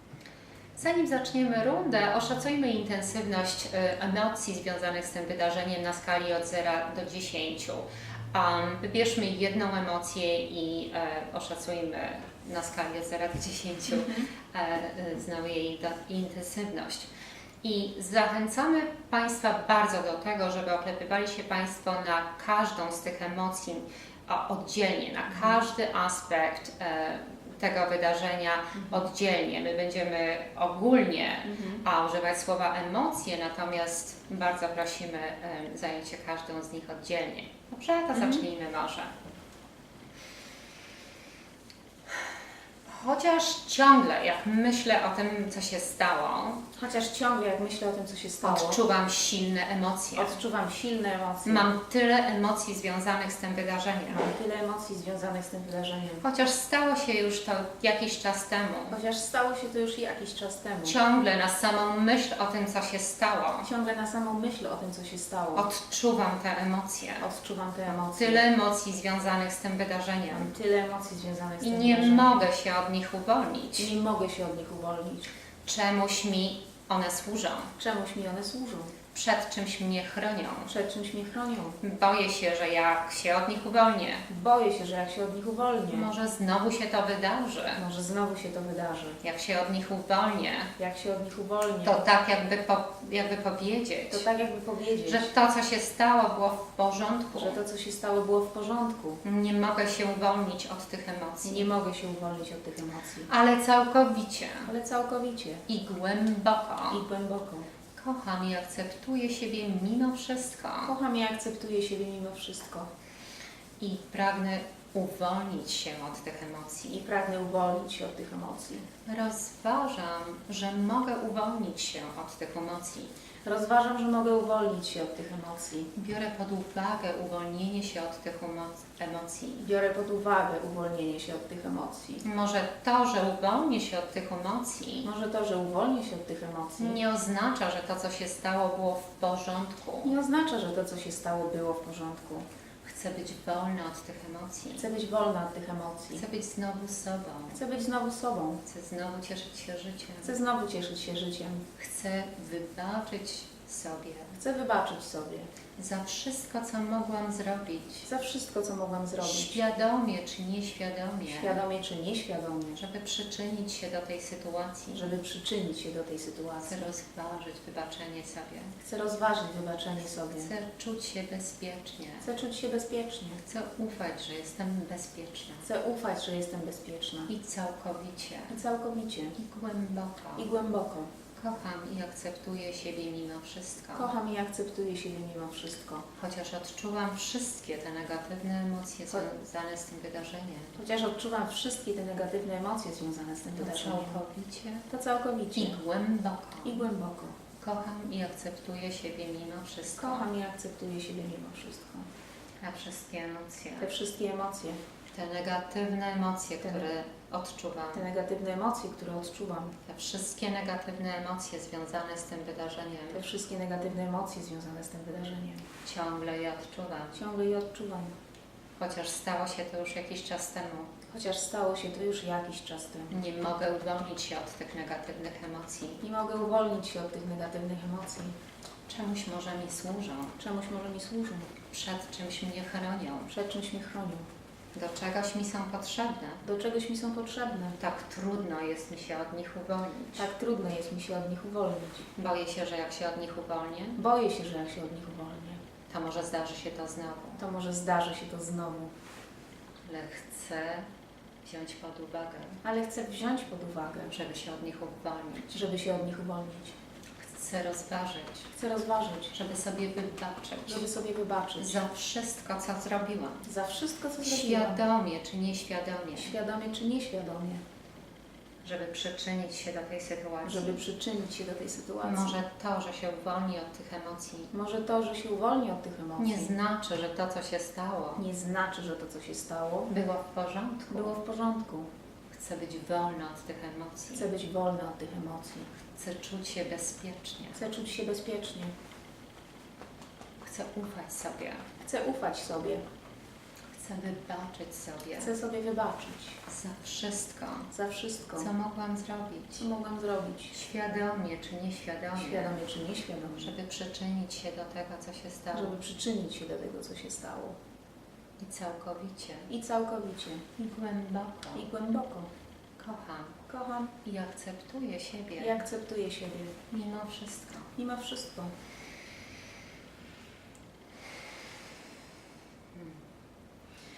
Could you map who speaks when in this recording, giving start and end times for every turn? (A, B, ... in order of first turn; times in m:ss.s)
0:00.8-0:17.1 A
0:13.9-0:14.3 B
0:17.6-0:39.1 A
0:25.3-0:25.6 B
0:28.8-0:29.0 B
0:31.4-0:31.8 B
0:38.1-0:38.4 B
0:42.8-0:46.6 A
0:46.8-0:48.8 B
0:48.4-0:50.4 A
0:50.2-0:51.7 B
0:51.4-0:54.3 A
0:54.1-0:56.2 B
0:56.2-0:59.0 A
0:58.9-1:01.0 B
1:00.8-1:03.7 A
1:03.6-1:05.7 B
1:05.5-1:07.2 A
1:07.2-1:08.4 B
1:07.9-1:10.5 A
1:10.3-1:12.4 B
1:11.6-1:13.9 A
1:13.8-1:15.3 B
1:15.6-1:17.7 A
1:17.8-1:18.9 B
1:19.1-1:20.7 A
1:20.7-1:21.8 B
1:21.8-1:24.2 A
1:24.3-1:26.1 B
1:25.9-1:27.8 A
1:27.8-1:29.2 B
1:29.2-1:30.7 A
1:30.8-1:32.1 B
1:31.8-1:34.2 A
1:34.1-1:35.3 B
1:35.0-1:37.6 A
1:37.3-1:39.2 B
1:39.2-1:41.7 A
1:41.4-1:43.3 B
1:43.3-1:44.7 A
1:44.6-1:45.6 B
1:45.7-1:47.0 A
1:46.9-1:47.7 B
1:48.0-1:51.0 A
1:50.8-1:52.9 B
1:53.8-1:57.0 A
1:56.9-1:58.9 B
1:59.0-2:03.1 A
2:03.4-2:05.9 B
2:06.0-2:09.6 A
2:09.6-2:12.2 B
2:12.2-2:15.1 A
2:15.0-2:17.0 B
2:16.8-2:20.1 A
2:20.0-2:22.4 B
2:22.8-2:24.8 A
2:24.8-2:26.2 B
2:26.1-2:27.6 A
2:27.5-2:28.6 B
2:28.6-2:30.3 A
2:30.2-2:31.6 B
2:31.8-2:34.4 A
2:34.4-2:35.5 B
2:35.8-2:38.1 A
2:38.0-2:39.6 B
2:39.2-2:41.6 A
2:41.3-2:42.8 B
2:42.8-2:45.1 A
2:44.9-2:46.8 B
2:46.6-2:48.8 A
2:48.8-2:50.5 B
2:50.4-2:52.3 A
2:52.2-2:53.4 B
2:53.4-2:55.7 A
2:55.6-2:57.3 B
2:57.3-2:58.6 A
2:58.5-2:59.4 B
2:59.4-3:00.5 A
3:00.4-3:01.1 B
3:01.3-3:04.1 A
3:04.0-3:06.0 B
3:06.2-3:10.7 A
3:10.7-3:14.2 B
3:13.6-3:14.8 A
3:14.9-3:15.8 B
3:15.5-3:16.8 A
3:16.6-3:17.4 B
3:17.6-3:20.3 A
3:20.0-3:22.0 B
3:22.6-3:23.9 A
3:23.8-3:24.8 B
3:25.1-3:28.0 A
3:27.9-3:29.8 B
3:29.8-3:33.2 A
3:33.1-3:35.6 B
3:35.8-3:37.2 A
3:37.1-3:38.1 B
3:38.8-3:40.9 A
3:41.1-3:43.2 B
3:43.1-3:46.0 A
3:46.0-3:48.3 B
3:48.9-3:50.3 A
3:50.4-3:51.5 B
3:51.7-3:53.3 A
3:53.3-3:54.3 B
3:54.7-3:56.4 A
3:56.4-3:57.8 B
3:57.8-4:00.3 A
4:00.2-4:02.1 B
4:02.2-4:04.0 A
4:04.0-4:05.6 B
4:05.9-4:07.4 A
4:07.4-4:08.9 B
4:09.8-4:10.9 A
4:11.4-4:12.6 A
4:12.6-4:14.2 B
4:14.1-4:15.6 A
4:15.5-4:16.8 B
4:17.2-4:18.5 A
4:18.5-4:19.7 B
4:19.3-4:20.9 A
4:20.6-4:21.8 B
4:21.6-4:23.4 A
4:23.4-4:24.8 B
4:24.2-4:26.4 A
4:26.1-4:27.6 B
4:28.6-4:30.8 A
4:30.4-4:32.4 B
4:32.0-4:34.5 A
4:34.5-4:36.5 B
4:36.2-4:38.2 A
4:38.2-4:39.9 B
4:39.9-4:41.2 A
4:40.9-4:41.9 B
4:42.3-4:44.3 A
4:44.1-4:45.7 B
4:46.0-4:47.6 A
4:47.5-4:48.7 B
4:50.4-4:51.6 A
4:51.8-4:52.8 B
4:53.7-4:55.3 A
4:55.2-4:56.4 B
4:56.5-4:57.7 A
4:57.7-4:58.5 B
4:58.4-4:59.7 A
4:59.5-5:00.6 B
5:00.5-5:02.6 A
5:02.1-5:03.5 B
5:03.4-5:05.8 A
5:05.5-5:07.6 B
5:08.4-5:09.5 A
5:09.5-5:10.5 B
5:10.6-5:11.7 A
5:11.5-5:12.3 B
5:12.8-5:13.4 A
5:13.5-5:13.9 B
5:14.0-5:15.6 A
5:15.4-5:16.6 B
5:16.7-5:17.7 A
5:17.8-5:18.5 B
5:22.7-5:23.0 A